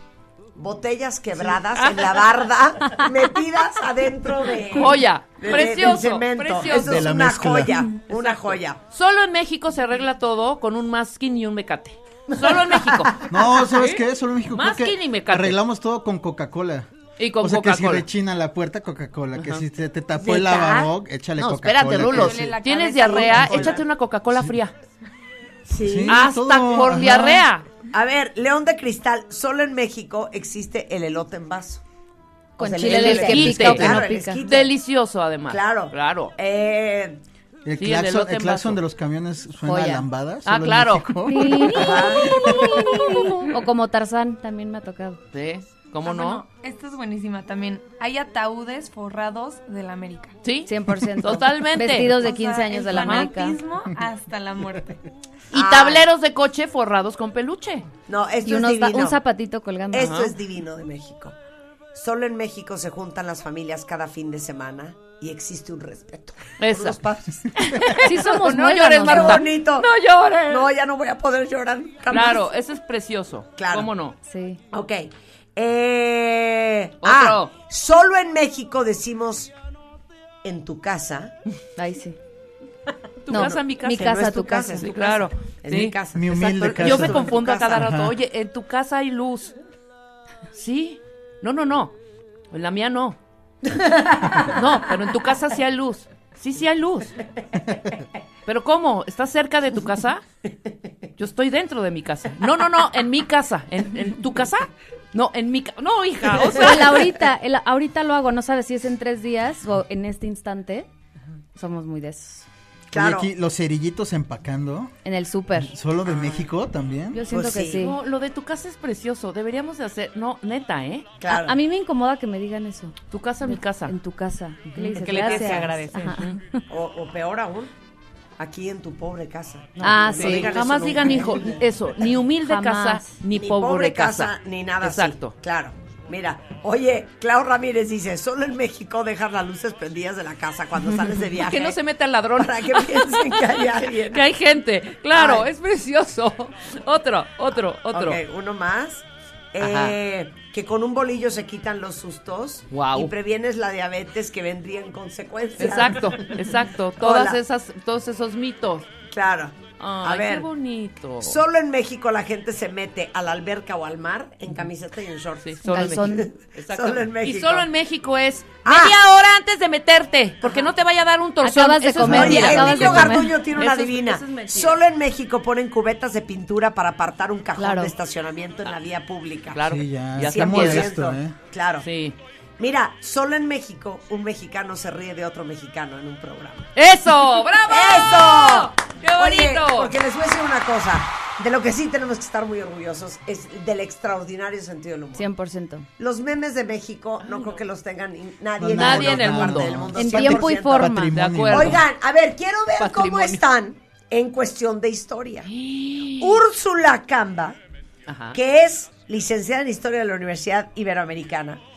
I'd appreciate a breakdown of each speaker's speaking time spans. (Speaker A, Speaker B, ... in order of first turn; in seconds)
Speaker A: 0.6-8.8, 12.4-13.2, 20.2-20.9, 23.1-23.8, 25.7-26.2, 27.9-31.8, 32.6-34.7, 35.5-37.2, 41.8-42.5, 55.5-56.1, 58.1-59.2, 59.9-61.4, 61.9-67.7, 69.0-69.9, 70.5-72.5, 73.6-73.9, 74.7-79.5, 80.4-81.3, 83.3-87.9, 93.7-94.6, 97.7-98.0, 106.4-106.8, 112.9-113.3, 117.3-117.8, 121.2-121.6, 126.7-127.7, 128.4-131.7, 133.3-141.8, 142.4-144.2, 145.2-145.5, 147.9-156.5, 157.0-157.4, 159.1-160.5, 161.2-167.7, 168.7-169.0, 170.4-170.7, 172.0-179.6, 180.2-181.9, 182.6-186.7, 187.7-195.3, 196.0-205.5, 206.2-207.6, 208.3-211.6
Speaker B: 1.4-3.0, 4.8-7.1, 8.1-15.6, 17.2-18.1, 19.4-19.6, 21.4-24.7, 26.1-27.7, 32.8-36.3, 37.8-38.8, 40.5-41.2, 41.8-43.4, 45.3-46.5, 50.4-52.3, 53.0-53.3, 55.5-57.9, 60.0-60.4, 66.6-67.0, 67.6-70.7, 72.1-74.2, 77.0-77.5, 83.2-89.5, 90.5-92.0, 92.5-93.2, 94.4-97.2, 98.5-100.2, 101.2-107.1, 117.7-121.1, 123.1-124.0, 124.7-126.4, 129.8-135.3, 141.3-148.2, 149.6-150.0, 152.7-153.1, 155.6-158.9, 159.8-161.4, 165.4-174.8, 179.5-180.9, 181.8-182.2, 186.8-190.0, 197.2-197.6, 198.7-199.8, 201.1-201.9, 202.8-203.4, 205.4-206.4, 208.1-208.4
Speaker C: 6.6-7.8, 13.3-22.6, 23.2-23.6, 25.8-27.5, 37.6-43.0, 86.1-88.2, 112.9-114.9, 115.5-117.2, 172.0-172.6, 179.6-181.4, 198.6-201.8
Speaker D: 22.1-23.8, 46.0-50.4, 52.1-55.0, 124.9-126.3
Speaker E: 32.6-34.4, 39.6-40.1, 41.3-45.2, 50.7-53.6, 58.5-60.2, 67.7-69.5, 74.3-74.6, 81.8-82.2, 83.3-84.9, 106.5-110.9, 111.6-112.5, 115.0-115.7, 117.1-118.0, 121.3-126.6, 129.8-130.6, 132.5-133.2, 165.6-166.3, 171.4-173.4, 177.6-177.9, 195.2-195.9, 199.9-201.2